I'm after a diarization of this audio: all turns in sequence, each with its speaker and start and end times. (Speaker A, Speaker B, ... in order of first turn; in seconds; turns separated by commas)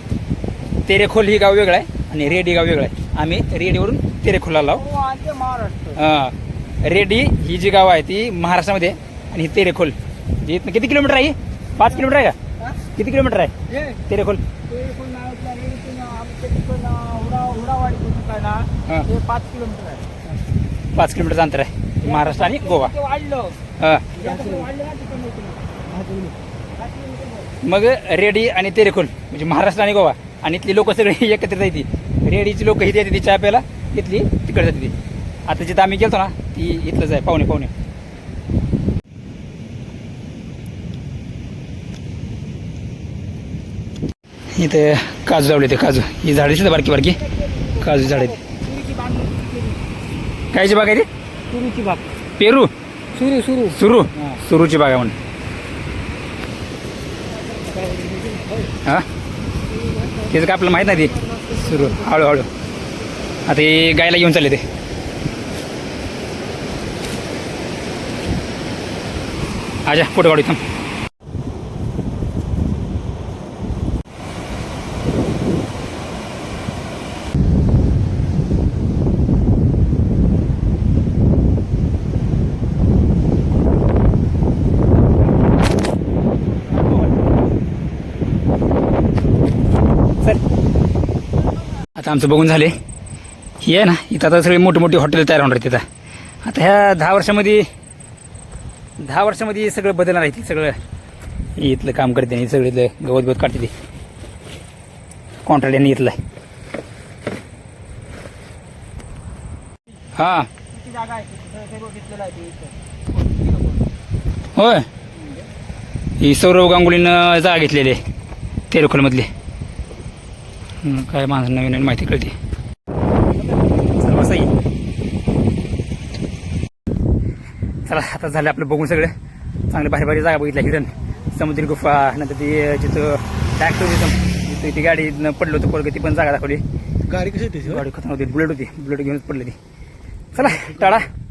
Speaker A: 0.9-4.8, Speaker B: 4.7-6.0, Speaker A: 6.0-12.4, Speaker A: 13.0-13.5, Speaker B: 13.7-14.0, Speaker A: 14.1-14.4, Speaker B: 14.7-20.1, Speaker A: 20.9-22.9, Speaker B: 22.0-23.6, Speaker A: 23.8-24.1, Speaker B: 24.1-27.5, Speaker A: 27.6-34.9, Speaker A: 35.5-37.7, Speaker A: 44.5-47.2, Speaker B: 46.9-49.8, Speaker A: 47.8-48.4, Speaker A: 50.5-51.1, Speaker B: 51.5-52.1, Speaker A: 52.4-52.7, Speaker B: 53.1-53.8, Speaker A: 53.6-55.1, Speaker B: 57.4-58.7, Speaker B: 59.7-62.3, Speaker A: 60.2-62.5, Speaker A: 63.5-64.6, Speaker A: 69.9-70.6, Speaker A: 92.0-92.7, Speaker A: 93.6-95.8, Speaker A: 96.4-97.7, Speaker A: 99.0-100.8, Speaker A: 101.6-103.7, Speaker A: 105.4-106.2, Speaker A: 110.2-110.5, Speaker B: 110.6-113.9, Speaker A: 114.6-114.9, Speaker A: 116.2-118.0, Speaker A: 118.7-119.3, Speaker A: 120.8-122.3, Speaker A: 124.0-124.6, Speaker A: 127.9-129.1, Speaker A: 129.7-136.6, Speaker B: 137.1-137.5, Speaker A: 137.6-139.6, Speaker A: 140.3-141.1